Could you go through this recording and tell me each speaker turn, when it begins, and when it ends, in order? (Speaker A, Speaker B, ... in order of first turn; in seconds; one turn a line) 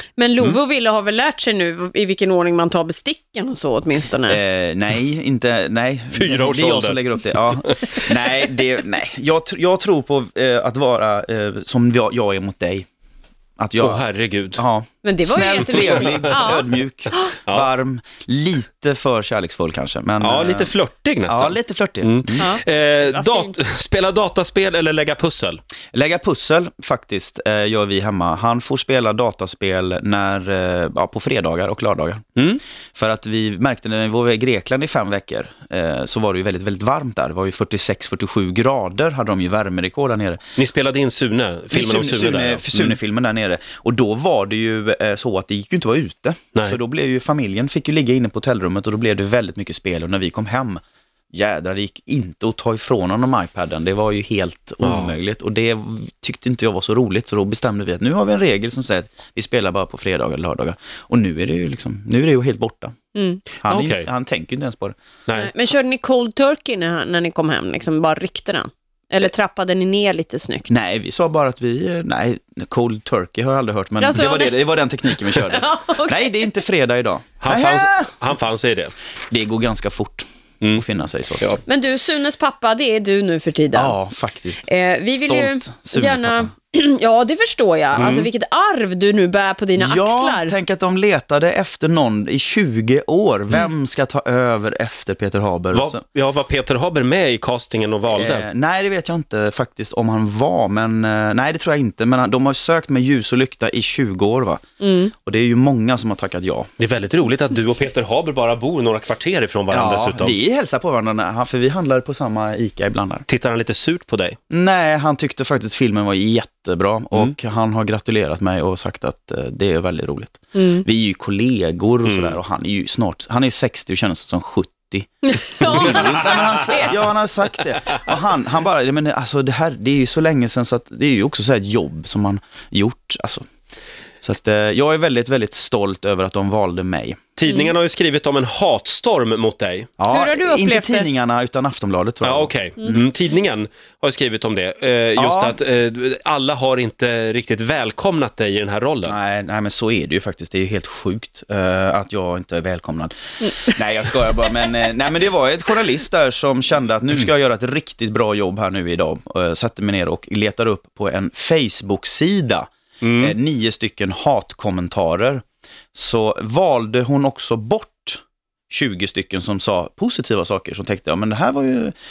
Speaker A: 0.2-4.4
Speaker B: 4.3-12.8
Speaker C: 6.1-8.4
Speaker B: 13.6-14.0
Speaker C: 13.8-14.6
Speaker B: 14.5-20.7
Speaker A: 15.0-17.3
Speaker C: 16.0-16.3
Speaker C: 20.2-25.6
Speaker B: 21.3-22.5
Speaker A: 22.4-23.5
Speaker B: 25.9-32.2
Speaker B: 33.0-40.4
Speaker C: 40.6-43.0
Speaker B: 41.7-50.8
Speaker B: 51.3-62.9
Speaker C: 54.8-55.1
Speaker A: 63.1-63.4
Speaker B: 63.6-64.9
Speaker C: 63.7-64.1
Speaker C: 65.3-65.5
Speaker A: 65.3-70.7
Speaker B: 70.7-78.1
Speaker A: 74.0-76.6
Speaker C: 77.4-78.9
Speaker B: 79.3-81.6
Speaker A: 81.6-84.0
Speaker B: 83.7-86.5
Speaker A: 84.7-90.5
Speaker C: 88.0-88.3
Speaker B: 89.8-96.0
Speaker C: 95.7-98.5
Speaker B: 98.1-104.6
Speaker A: 104.8-105.1
Speaker B: 105.1-106.7
Speaker C: 106.8-110.4
Speaker B: 109.7-113.2
Speaker C: 113.3-114.4
Speaker B: 114.5-133.4
Speaker A: 120.5-120.8
Speaker C: 122.0-122.4
Speaker A: 125.2-127.0
Speaker C: 125.6-127.0
Speaker B: 134.2-137.3
Speaker C: 137.4-139.9
Speaker B: 140.0-143.1
Speaker A: 140.1-141.1
Speaker C: 142.2-149.1
Speaker B: 145.2-145.6
Speaker B: 149.1-165.4
Speaker C: 163.0-163.3
Speaker B: 165.9-171.9